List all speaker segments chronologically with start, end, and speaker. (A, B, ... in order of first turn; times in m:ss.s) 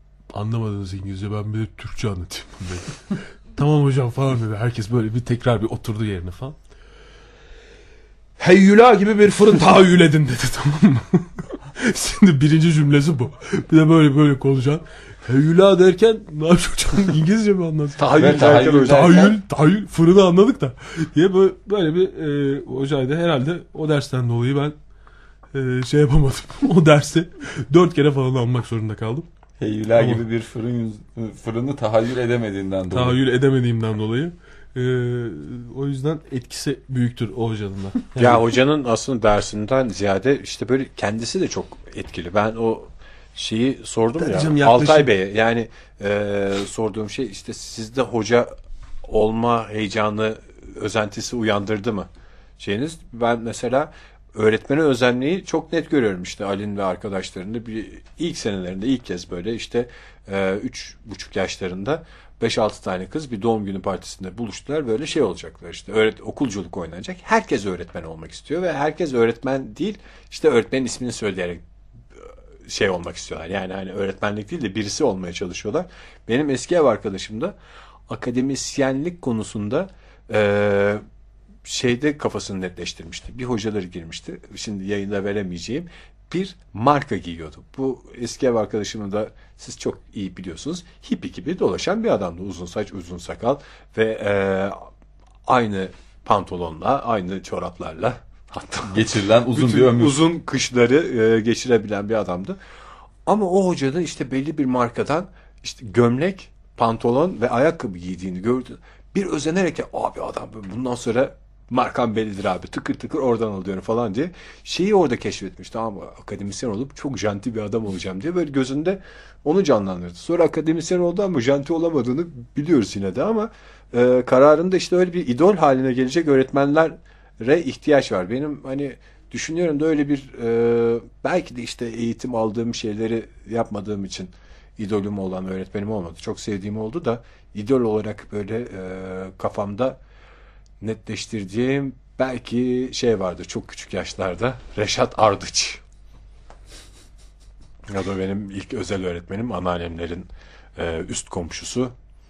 0:00.3-0:06.6 A
0:08.4-0:24.7 A
0:18.0-0:19.2 B
0:18.2-0:19.4 C
0:25.5-0:29.3 A
0:29.6-0:33.2 C
0:30.0-0:30.2 A
0:32.9-0:38.4 A
0:38.2-0:48.5 B
0:44.2-0:45.1 A
0:49.0-1:11.6 B
1:12.7-1:17.5 B
1:18.1-1:21.0 B
1:21.6-1:34.8 B
1:35.5-1:42.6 B
1:38.8-1:40.3 C
1:43.2-2:20.0 B
2:20.8-2:25.8 B
2:27.9-2:31.9 B